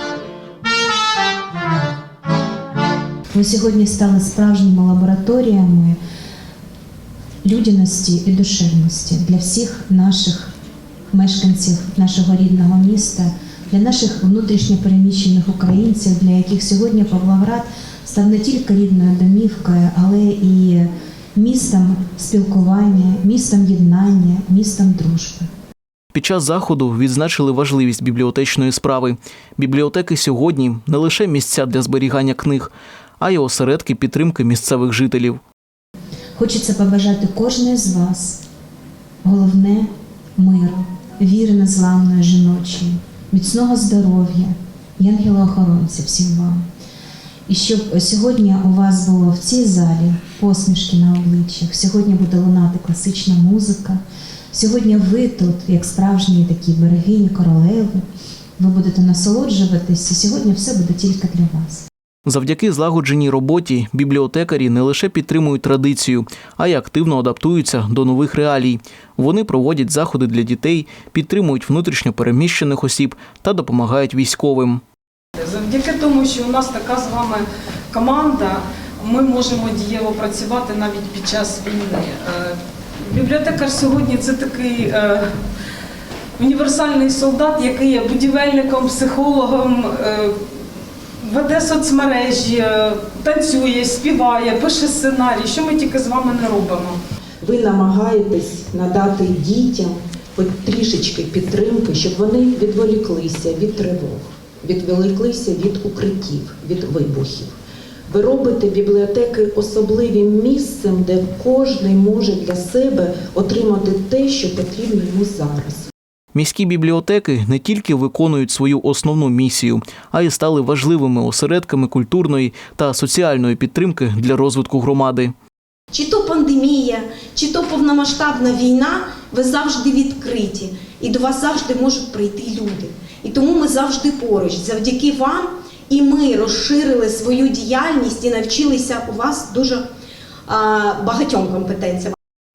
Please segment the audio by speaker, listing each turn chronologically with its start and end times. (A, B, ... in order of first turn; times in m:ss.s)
0:03.3-0:06.0 A
0:07.4-0:10.5 A
0:11.1-0:25.5 A
0:26.1-0:35.4 B
0:36.4-0:38.4 A
0:39.2-0:46.6 A
0:47.5-0:54.0 A
0:54.5-0:58.0 A
0:58.6-1:01.8 A
1:02.2-1:14.8 B
1:15.4-1:25.4 C
1:26.4-1:30.4 C
1:31.2-1:37.0 C
1:37.4-1:47.5 D
1:48.1-1:55.9 D
1:56.3-2:05.3 B
2:05.9-2:19.8 E
2:20.5-2:22.1 E